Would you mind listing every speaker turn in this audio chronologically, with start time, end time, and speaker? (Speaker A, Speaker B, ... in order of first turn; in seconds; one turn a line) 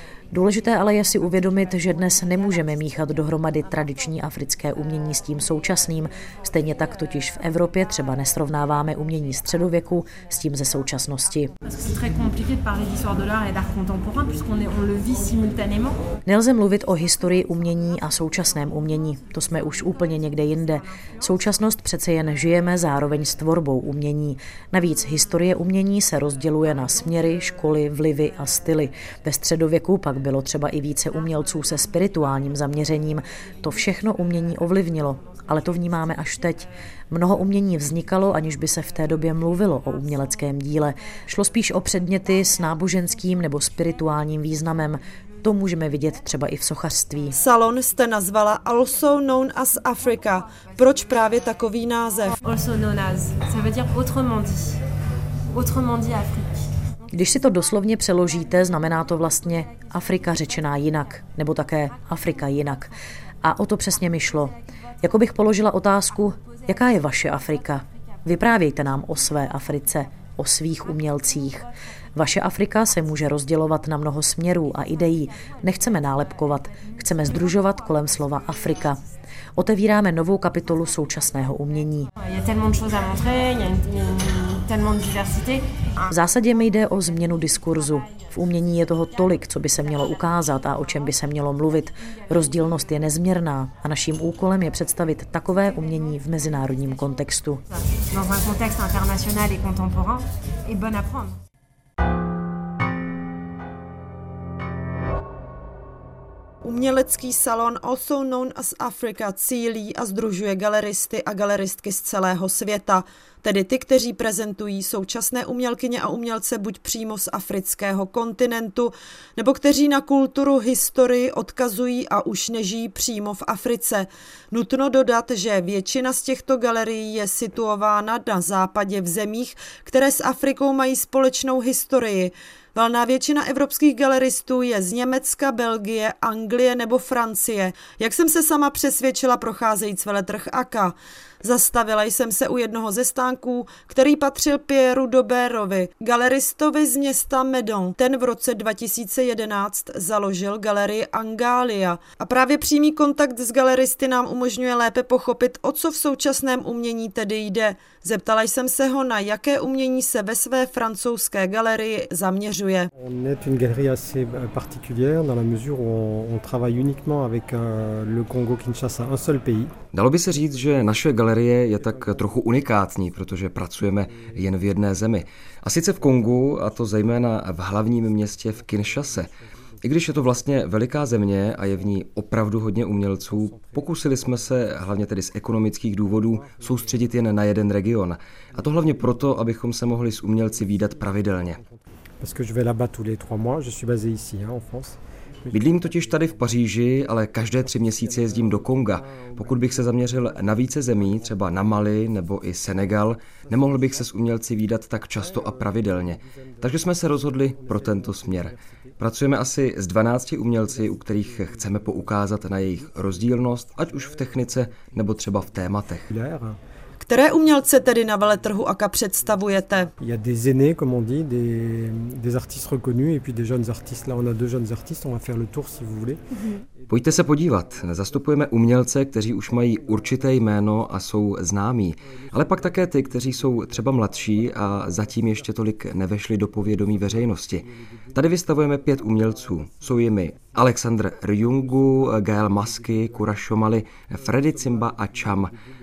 Speaker A: 0.3-11.5
Speaker B: 11.6-16.0
Speaker A: 16.2-47.3
Speaker C: 47.3-52.3
Speaker B: 52.4-54.8
Speaker B: 55.5-56.6
Speaker A: 57.1-62.9
Speaker A: 63.4-79.0
Speaker A: 79.6-82.1
Speaker B: 82.2-86.1
Speaker A: 86.1-97.6
Speaker B: 97.9-101.4
Speaker C: 106.6-162.9
Speaker D: 162.9-169.7
Speaker E: 169.9-179.3
Speaker E: 179.8-191.6
Speaker D: 192.2-195.0
Speaker E: 195.5-216.1
Speaker D: 216.1-216.6
Speaker C: 217.0-219.9
Speaker D: 220.0-226.2
Speaker E: 226.9-245.6